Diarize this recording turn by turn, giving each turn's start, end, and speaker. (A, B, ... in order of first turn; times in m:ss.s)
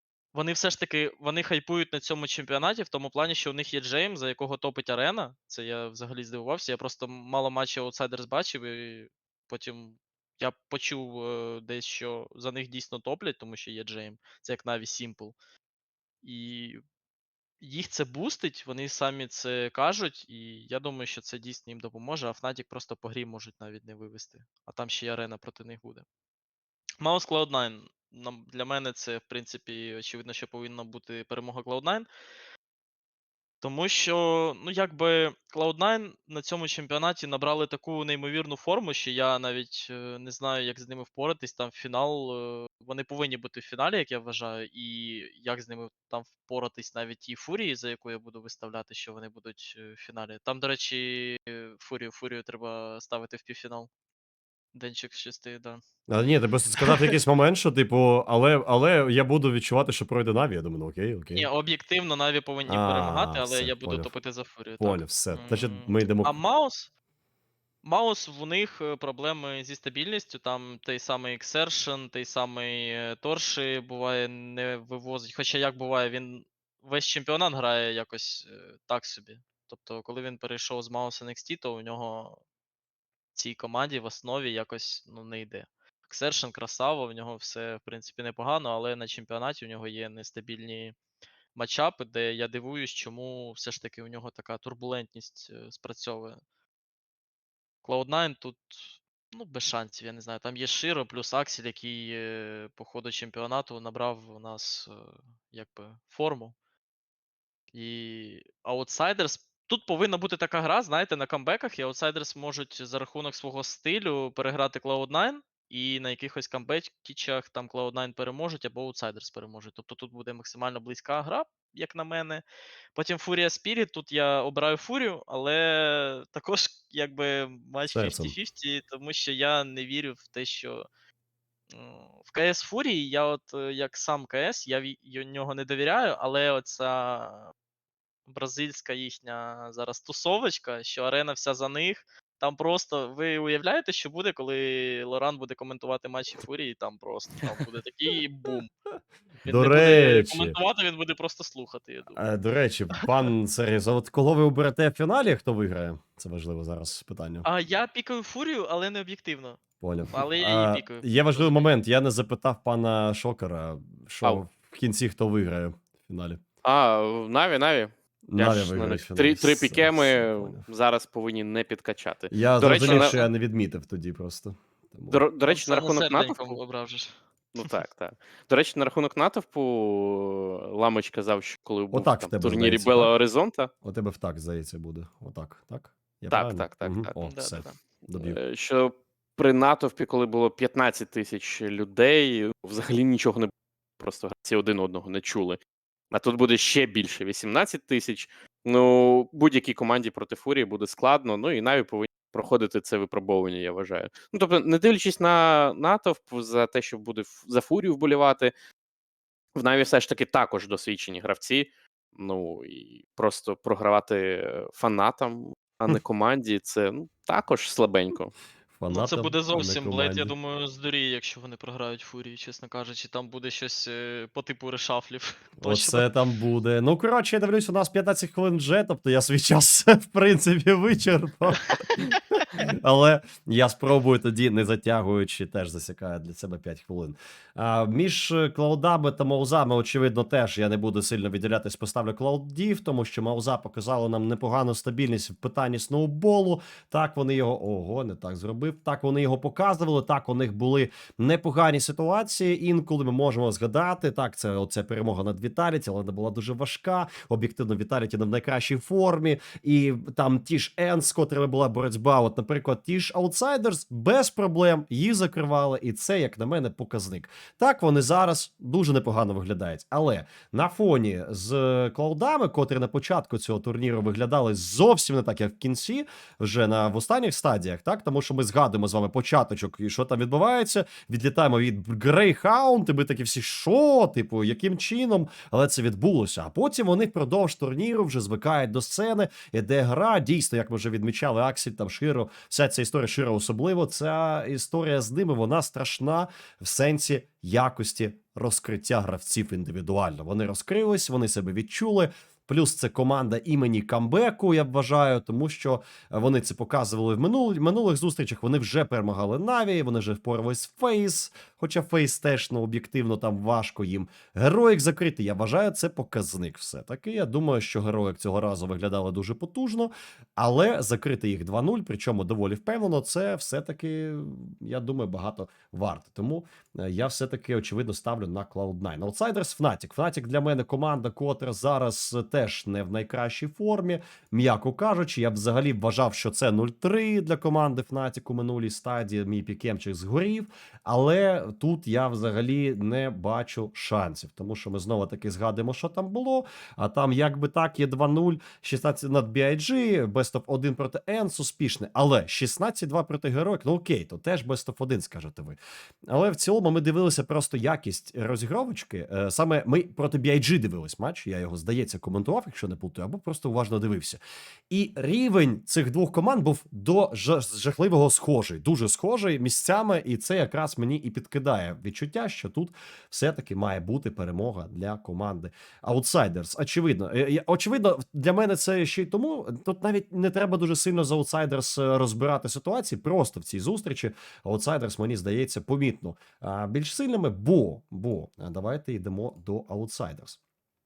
0:00.3-0:15.3 A
0:16.2-0:16.8 A
0:17.6-0:26.0 A
0:27.0-0:32.1 A
0:33.6-0:53.9 A
0:54.7-0:55.8 A
0:56.1-1:01.5 B
0:56.8-0:57.2 A
1:01.3-1:06.9 A
1:02.7-1:04.1 B
1:04.8-1:06.4 B
1:07.8-1:22.4 A
1:23.3-1:30.9 A
1:31.5-1:36.4 A
1:37.8-1:46.5 A
1:47.7-2:02.4 A
2:02.9-2:10.9 A
2:07.9-2:08.3 B
2:11.7-2:17.5 A
2:18.3-2:28.7 A
2:29.4-2:32.2 A
2:29.5-2:30.6 B
2:32.2-2:37.4 B
2:37.4-2:39.6 A
2:39.8-2:46.4 B
2:40.1-2:41.7 A
2:46.6-2:53.2 C
2:48.3-2:50.6 B
2:52.3-2:55.2 B
2:52.8-2:53.2 A
2:55.1-2:56.6 C
2:55.5-2:57.7 A
2:57.5-3:03.7 C
3:01.9-3:03.1 B
3:03.8-3:08.4 B
3:06.3-3:07.1 C
3:07.2-3:07.8 A
3:08.1-3:15.6 C
3:16.1-3:28.5 C
3:29.5-3:38.3 C
3:38.7-3:40.3 B
3:38.9-3:46.1 A
3:45.6-5:55.6 B
5:56.1-6:30.4 B